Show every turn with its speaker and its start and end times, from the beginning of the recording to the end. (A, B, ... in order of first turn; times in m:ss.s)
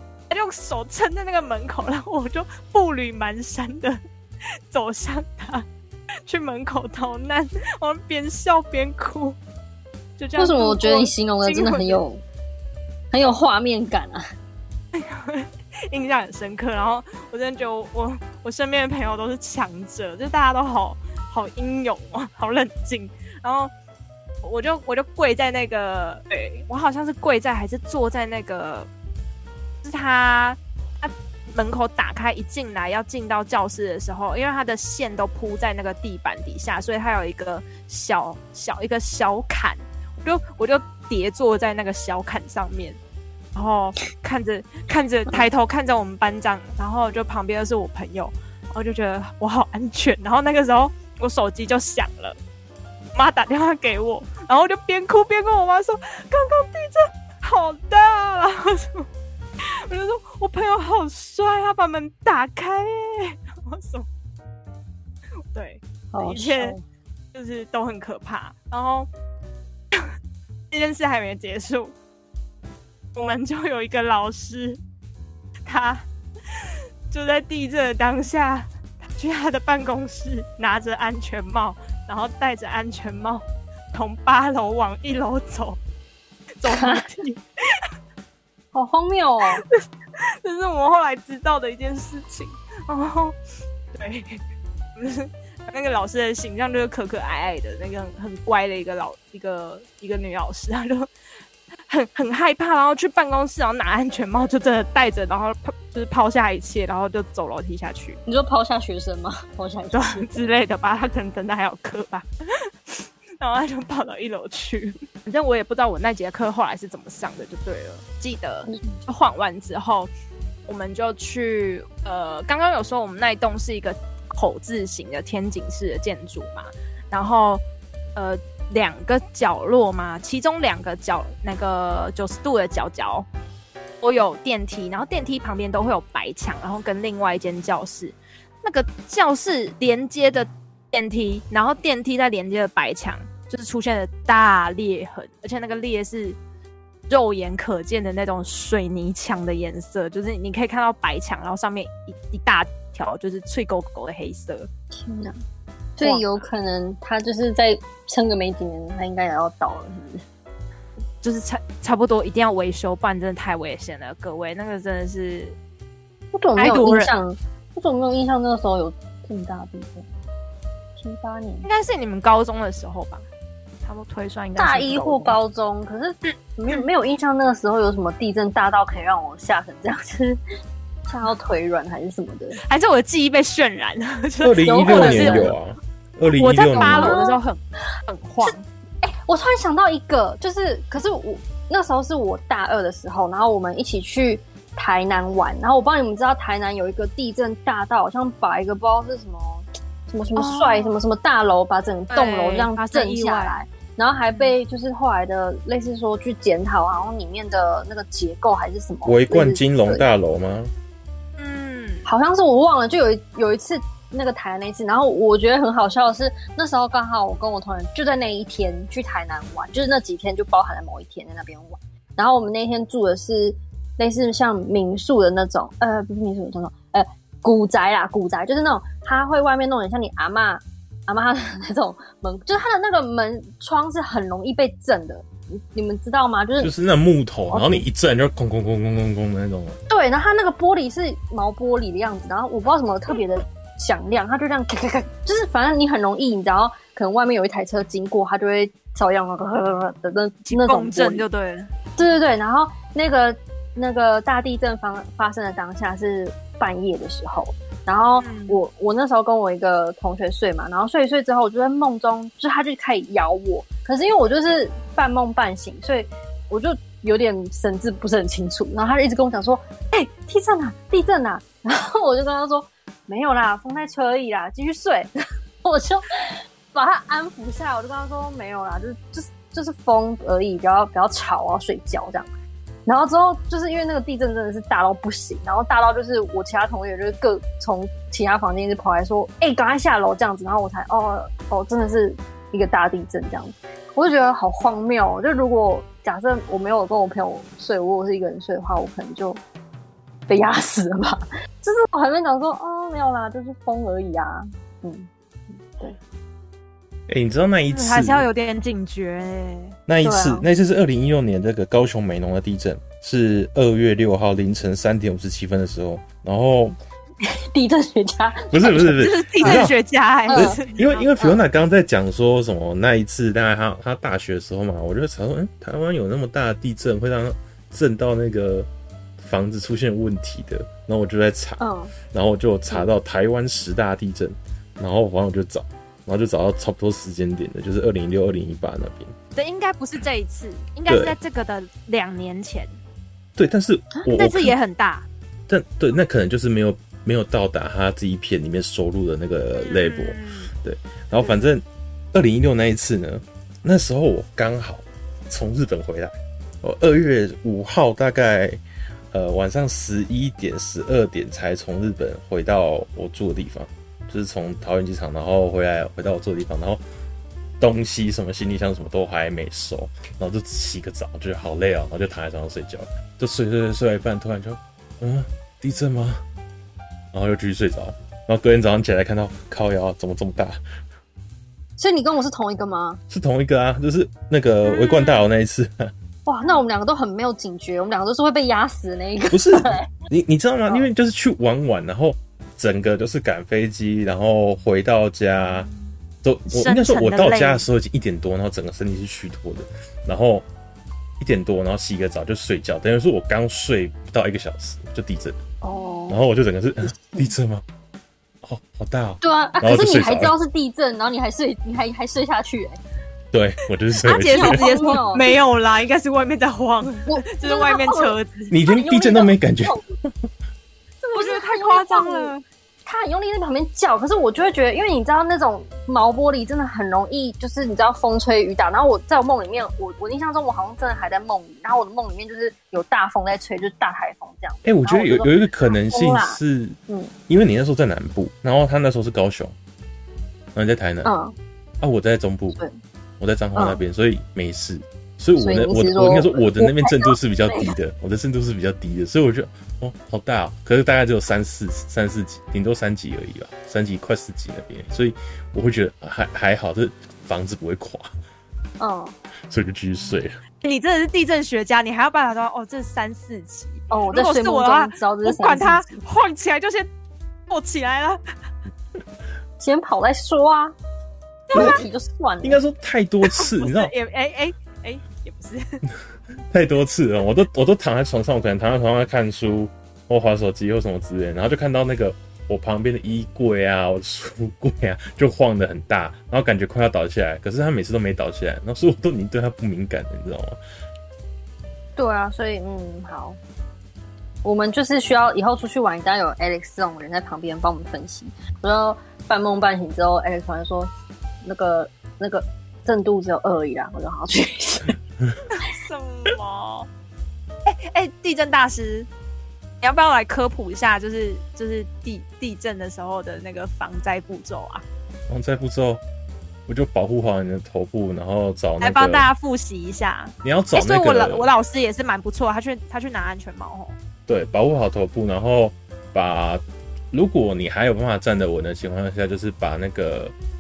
0:00.3-0:04.0 A
0:04.7-0:05.7 A
0:06.3-0:09.4 A
0:10.2-0:12.0 A
0:10.4-0:12.2 B
0:13.1-0:14.2 B
0:14.9-0:23.7 A
0:24.4-0:28.9 A
0:29.8-0:43.0 A
0:43.6-0:52.4 A
0:53.2-0:59.1 A
0:59.6-1:04.1 A
1:05.5-1:06.8 A
1:06.1-1:06.8 B
1:07.3-1:09.1 A
1:10.7-1:11.9 A
1:13.2-1:14.8 A
1:15.7-1:16.0 A
1:16.6-1:25.8 A
1:26.6-1:27.4 A
1:26.7-1:27.0 B
1:28.7-1:29.6 B
1:29.7-1:33.4 A
1:33.9-1:34.4 A
1:35.0-1:41.1 A
1:41.9-1:48.2 A
1:48.3-1:50.4 B
1:49.9-1:52.3 A
1:52.9-2:00.1 A
1:58.7-1:59.0 B
2:00.7-2:07.6 A
2:08.2-2:13.3 A
2:14.0-2:26.4 A
2:27.1-2:34.7 A
2:34.9-2:35.4 B
2:36.0-2:40.2 B
2:36.0-2:36.5 A
2:41.2-2:45.6 A
2:46.3-2:50.1 B
2:46.6-2:47.1 A
2:51.0-2:51.7 B
2:51.6-2:53.2 A
2:53.8-2:55.4 A
2:54.6-3:00.4 B
3:01.1-3:02.6 B
3:02.6-3:05.5 A
3:04.4-3:07.2 C
3:04.6-3:05.6 B
3:06.4-3:08.6 A
3:06.8-3:07.4 B
3:08.4-3:30.1 B
3:20.4-3:20.9 A
3:22.1-3:23.6 A
3:29.1-3:30.7 C
3:31.4-3:32.1 A
3:32.0-3:56.7 B
3:56.6-3:59.8 C
3:57.5-3:57.9 B
3:59.9-4:11.2 B
4:10.5-4:11.7 A
4:12.0-4:35.1 B
4:18.2-4:18.6 A
4:35.6-4:36.1 B
4:36.7-4:42.3 B
4:42.9-4:59.4 B
5:00.3-5:06.0 B
5:07.1-5:08.3 C
5:07.7-5:09.8 A
5:09.9-5:16.8 C
5:10.0-5:10.5 B
5:17.5-5:19.7 B
5:18.5-5:19.8 C
5:19.0-5:21.1 A
5:20.3-5:20.6 B
5:20.3-5:28.7 C
5:29.2-5:31.6 C
5:31.6-5:31.9 B
5:32.1-5:39.1 C
5:39.4-5:42.8 A
5:40.9-5:41.2 C
5:43.4-5:44.6 C
5:44.2-5:45.1 A
5:45.5-5:58.6 C
5:49.6-5:50.5 A
5:59.1-6:06.8 C
6:07.6-6:16.2 C
6:17.1-6:20.6 C
6:21.8-6:23.0 B
6:23.1-6:25.9 C
6:24.7-6:25.2 A
6:26.3-6:29.9 B
6:29.3-6:35.7 C
6:36.2-6:40.4 C
6:36.5-6:37.6 A
6:41.2-6:45.4 C
6:45.6-6:46.2 B
6:46.1-6:47.6 C
6:48.4-6:50.3 C
6:49.2-6:52.8 B
6:53.3-6:54.7 C
6:54.0-6:58.5 A
6:54.3-6:55.3 B
6:57.1-6:58.2 B
6:58.5-7:00.3 C
6:58.7-6:59.9 B
7:01.0-7:02.4 A
7:01.1-7:02.3 B
7:02.9-7:17.1 B
7:14.6-7:16.8 C
7:17.3-7:19.5 C
7:20.6-7:21.1 C
7:21.0-7:21.4 B
7:21.8-7:22.6 C
7:23.2-7:38.1 C
7:23.6-7:23.8 B
7:25.4-7:27.7 B
7:38.8-7:39.2 B
7:39.5-7:40.4 C
7:40.6-7:46.9 A
7:43.9-7:46.0 B
7:47.5-7:48.2 A
7:49.6-7:50.8 B
7:51.5-7:51.8 A
7:51.5-7:51.8 C
7:51.5-7:52.6 B
7:52.4-7:53.9 C
7:53.3-7:55.8 A
7:56.5-8:10.6 C
8:12.0-8:13.4 B
8:14.4-8:20.9 B
8:21.4-8:25.0 B
8:25.5-8:26.9 A
8:27.7-8:29.1 A
8:29.8-8:34.8 A
8:35.3-8:36.0 C
8:36.7-8:39.3 C
8:38.8-8:44.0 A
8:40.4-8:41.5 C
8:44.3-8:50.3 C